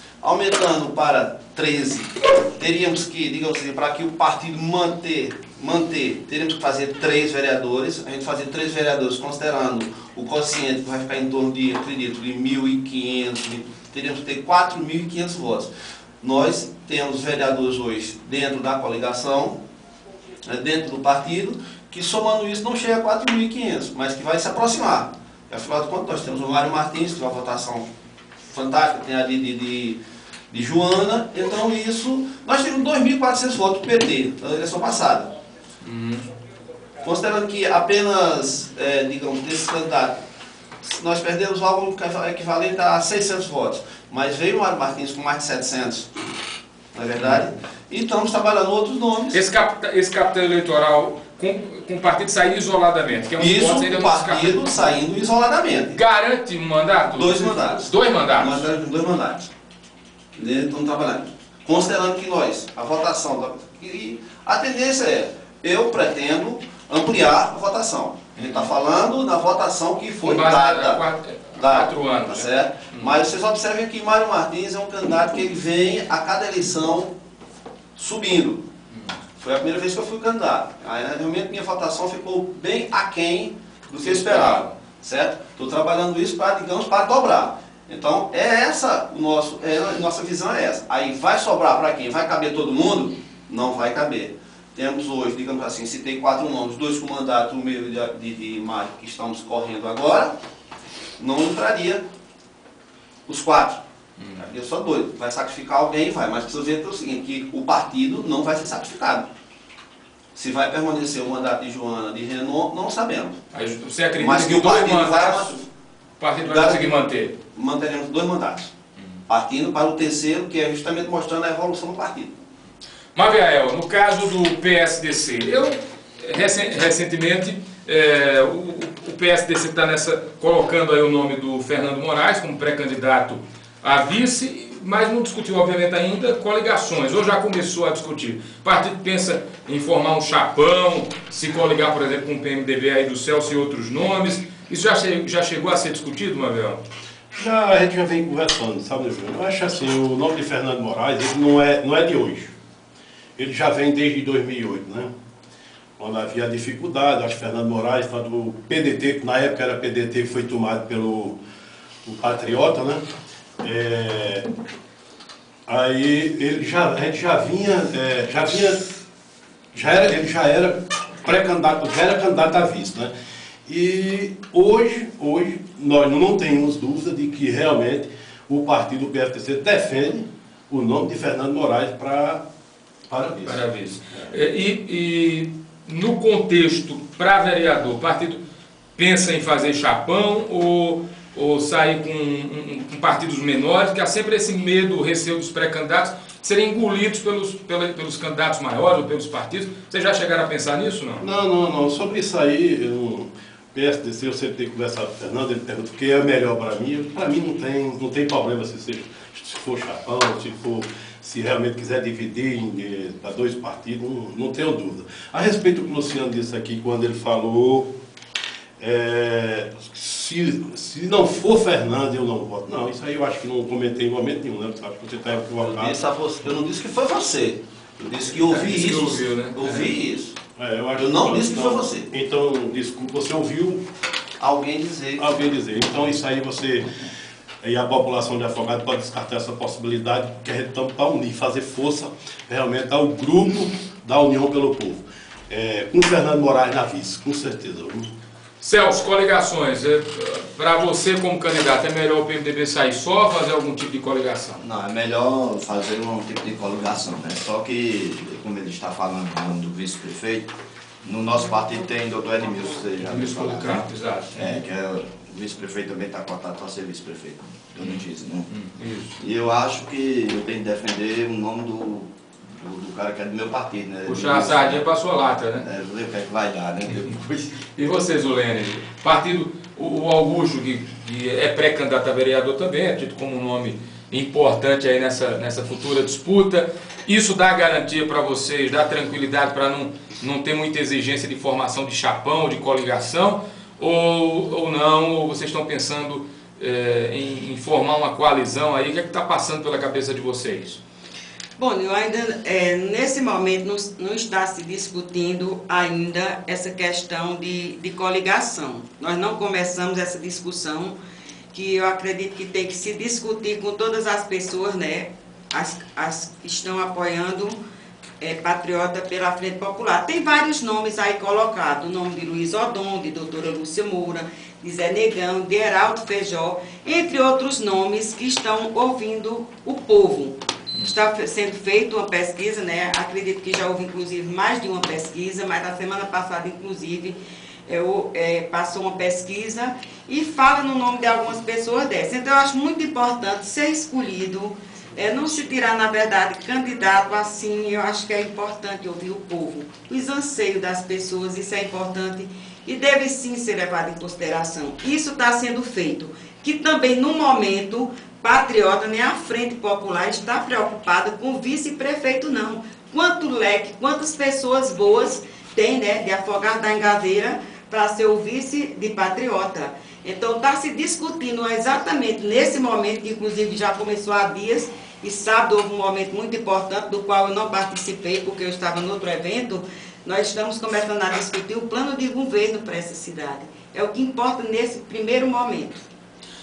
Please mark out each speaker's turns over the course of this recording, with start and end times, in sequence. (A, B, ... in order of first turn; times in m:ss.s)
0:00.2-0:15.7 A
0:16.2-0:19.6 A
0:20.4-0:27.9 A
0:28.5-0:30.0 A
0:30.5-0:35.3 A
0:35.8-0:36.2 B
0:37.0-0:40.2 A
0:40.8-0:46.1 A
0:46.9-0:49.4 A
0:47.2-0:47.4 B
0:49.3-0:55.0 B
0:53.4-0:56.0 A
0:55.9-0:58.6 B
0:57.1-0:59.5 A
1:00.3-1:11.0 A
1:08.4-1:08.7 B
1:10.2-1:13.1 B
1:11.5-1:17.1 A
1:18.0-1:18.6 A
1:19.4-1:40.3 A
1:24.0-1:24.7 B
1:41.2-1:42.0 A
1:43.3-1:43.8 A
1:44.2-1:44.5 B
1:44.4-1:49.3 A
1:50.3-1:53.4 A
1:53.5-1:55.6 B
1:54.2-1:55.6 A
1:56.2-1:57.3 B
1:56.5-1:58.7 A
1:59.3-2:02.4 A
2:03.1-2:26.8 B
2:27.3-2:32.5 C
2:33.4-2:35.1 C
2:36.0-2:41.4 C
2:42.0-2:43.0 C
2:43.6-2:44.4 C
2:45.7-2:48.9 C
2:49.7-2:53.1 C
2:53.6-3:02.4 C
3:03.1-3:04.3 C
3:03.4-3:08.4 B
3:09.0-3:21.2 B
3:21.2-3:37.9 C
3:38.8-3:45.9 C
3:45.6-3:50.4 A
3:48.4-3:49.9 B
3:50.6-3:53.8 C
3:50.9-3:52.1 A
3:54.4-3:55.3 A
3:55.2-3:56.8 C
3:57.6-4:08.1 C
4:08.6-4:14.6 B
4:14.6-4:28.5 D
4:23.0-4:24.6 B
4:27.8-4:29.2 B
4:29.2-4:34.8 D
4:34.1-4:35.6 B
4:35.6-4:37.5 D
4:37.6-5:00.8 B
5:01.6-5:11.0 E
5:11.5-5:17.6 E
5:18.2-5:37.2 E
5:37.7-6:25.8 E